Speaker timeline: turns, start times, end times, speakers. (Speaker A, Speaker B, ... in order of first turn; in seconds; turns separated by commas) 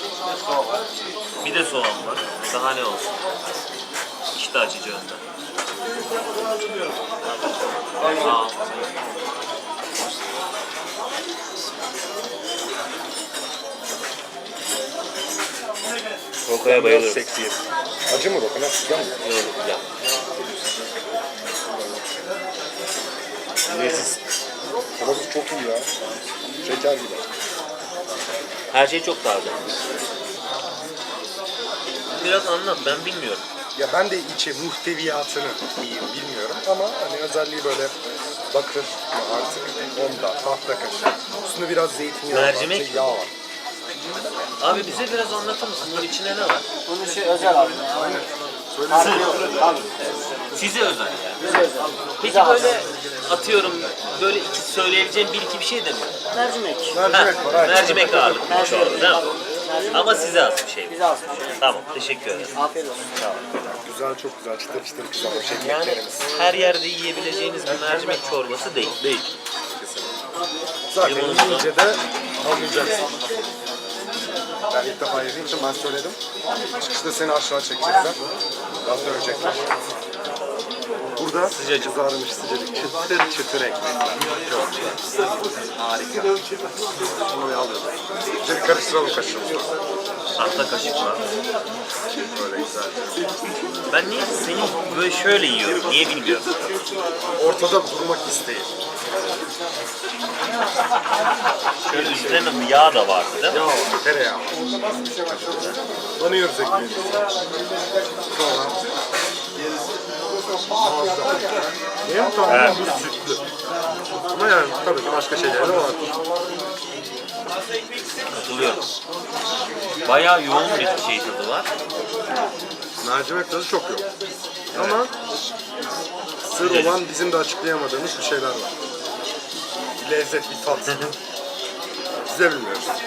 Speaker A: 0.3-0.8, Speaker B: 1.4-3.1, Speaker B: 4.3-5.2, Speaker B: 8.0-8.7, Speaker A: 8.0-8.4, Speaker B: 16.4-17.3, Speaker A: 16.6-19.2, Speaker B: 19.2-19.8, Speaker A: 23.7-24.2, Speaker A: 25.0-25.9, Speaker A: 26.6-27.2, Speaker B: 28.7-29.7, Speaker B: 32.1-33.5, Speaker A: 33.8-38.0, Speaker A: 38.5-43.3, Speaker B: 42.3-43.3, Speaker B: 44.6-46.7, Speaker C: 46.9-47.9, Speaker A: 47.9-49.5, Speaker B: 49.0-49.6, Speaker C: 49.0-49.9, Speaker B: 50.5-51.7, Speaker C: 51.5-52.3, Speaker B: 52.2-56.2, Speaker C: 56.3-57.0, Speaker A: 56.9-58.6, Speaker B: 57.1-61.0, Speaker C: 58.7-59.1, Speaker C: 59.6-59.9, Speaker C: 61.0-61.5, Speaker B: 61.6-62.6, Speaker C: 62.6-63.0, Speaker B: 63.2-63.8, Speaker A: 63.8-66.3, Speaker B: 65.5-69.3, Speaker A: 69.7-70.2, Speaker A: 70.9-73.1, Speaker B: 71.0-71.7, Speaker A: 74.7-76.2, Speaker A: 76.7-78.2, Speaker A: 78.8-79.7, Speaker A: 81.2-89.7, Speaker B: 81.5-82.0, Speaker B: 90.4-91.3, Speaker A: 92.1-93.3, Speaker B: 93.9-96.8, Speaker A: 97.4-98.8, Speaker B: 101.8-103.6, Speaker A: 101.9-102.6, Speaker A: 103.5-104.6, Speaker B: 105.3-105.8, Speaker A: 106.2-107.3, Speaker A: 108.2-109.0, Speaker A: 110.5-113.4, Speaker B: 112.5-112.8, Speaker A: 114.3-116.2, Speaker B: 118.3-118.9, Speaker B: 120.0-121.7, Speaker A: 123.0-124.0, Speaker B: 124.7-125.0, Speaker A: 124.7-125.1, Speaker A: 126.4-128.7, Speaker B: 126.6-127.0, Speaker A: 130.0-131.1, Speaker A: 132.3-132.9